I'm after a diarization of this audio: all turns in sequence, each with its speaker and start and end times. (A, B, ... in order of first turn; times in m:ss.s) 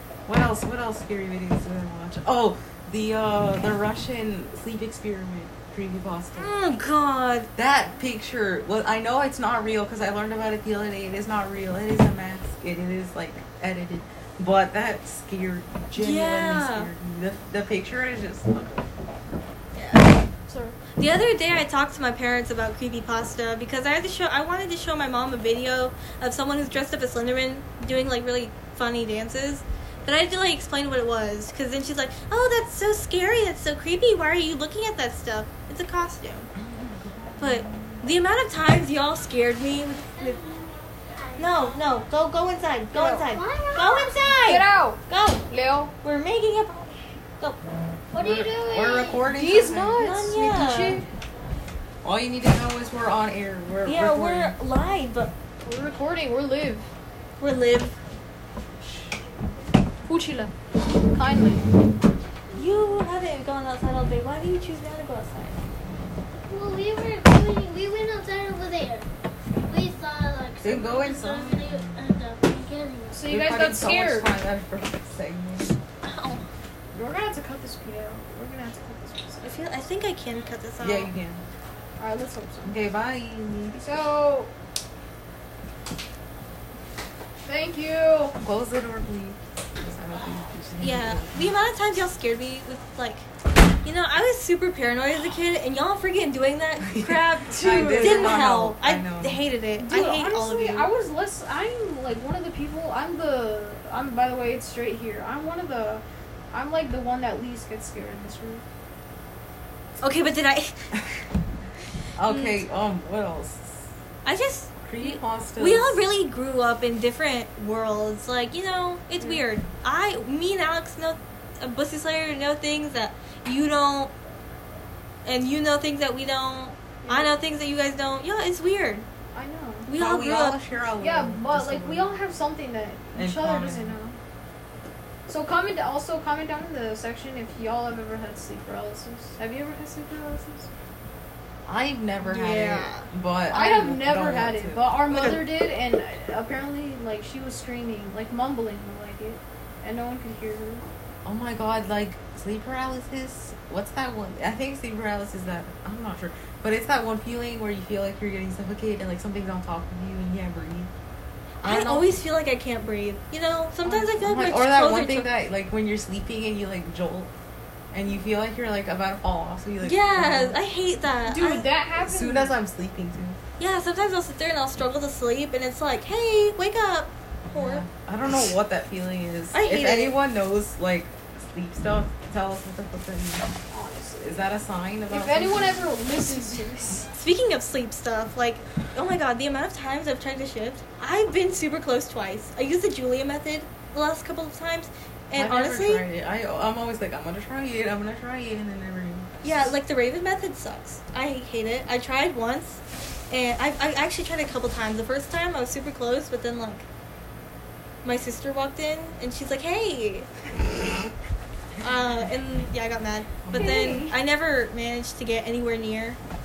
0:00.3-0:06.5 A
0:06.4-0:07.5 B
0:07.6-0:18.9 A
0:16.0-0:16.9 B
0:19.8-0:20.2 B
0:20.5-0:20.8 C
0:21.0-0:36.5 B
0:36.6-0:38.0 A
0:37.4-0:40.4 B
0:40.2-0:41.8 D
0:41.4-0:45.4 B
0:43.0-0:43.2 C
0:43.0-0:44.4 D
0:44.5-0:45.9 C
0:46.0-0:47.6 B
0:48.1-0:49.2 D
0:48.2-0:50.0 A
0:49.3-0:51.1 C
0:50.0-0:51.0 B
0:52.0-0:54.5 A
0:53.8-0:55.3 B
0:55.6-0:56.9 C
0:57.4-0:58.0 B
0:58.8-0:59.1 A
1:00.1-1:00.5 C
1:01.1-1:01.7 C
1:02.5-1:05.6 B
1:06.5-1:09.1 D
1:09.6-1:13.3 D
1:10.6-1:12.0 A
1:13.1-1:14.3 C
1:13.3-1:15.8 A
1:16.0-1:16.4 B
1:16.9-1:19.6 C
1:19.4-1:21.1 B
1:20.8-1:21.4 A
1:22.0-1:22.8 C
1:22.6-1:23.9 A
1:23.8-1:24.5 C
1:27.4-1:28.4 C
1:28.4-1:31.5 A
1:30.8-1:33.3 B
1:33.8-1:40.9 B
1:36.9-1:39.4 A
1:37.7-1:38.4 C
1:39.8-1:48.6 C
1:50.0-1:50.9 B
1:50.9-1:51.2 A
1:52.2-1:53.9 A
1:52.3-1:52.6 B
1:54.2-2:04.1 B
1:54.8-1:56.0 A
2:05.2-2:09.1 B
2:07.0-2:07.3 C
2:09.3-2:09.9 C
2:09.9-2:10.6 B
2:10.0-2:12.1 A
2:11.0-2:14.2 C
2:13.2-2:14.0 A
2:15.3-2:20.7 C
2:21.6-2:25.0 A
2:22.2-2:23.1 B
2:23.5-2:30.8 C
2:25.1-2:25.5 B
2:31.2-2:40.9 A
2:41.6-2:45.3 B
2:41.6-2:42.1 A
2:43.8-2:44.1 C
2:44.2-2:47.3 A
2:47.9-2:50.6 A
2:49.8-2:51.7 B
2:51.3-2:52.6 C
2:52.0-2:53.4 A
2:53.6-2:57.9 B
2:57.5-3:03.5 A
2:59.5-3:00.2 B
3:03.7-3:04.5 C
3:04.2-3:05.9 A
3:05.1-3:07.1 C
3:07.1-3:16.0 B
3:15.4-3:19.7 A
3:19.4-3:26.9 B
3:28.0-3:30.3 B
3:31.8-3:36.2 B
3:33.4-3:34.0 A
3:33.5-3:34.2 C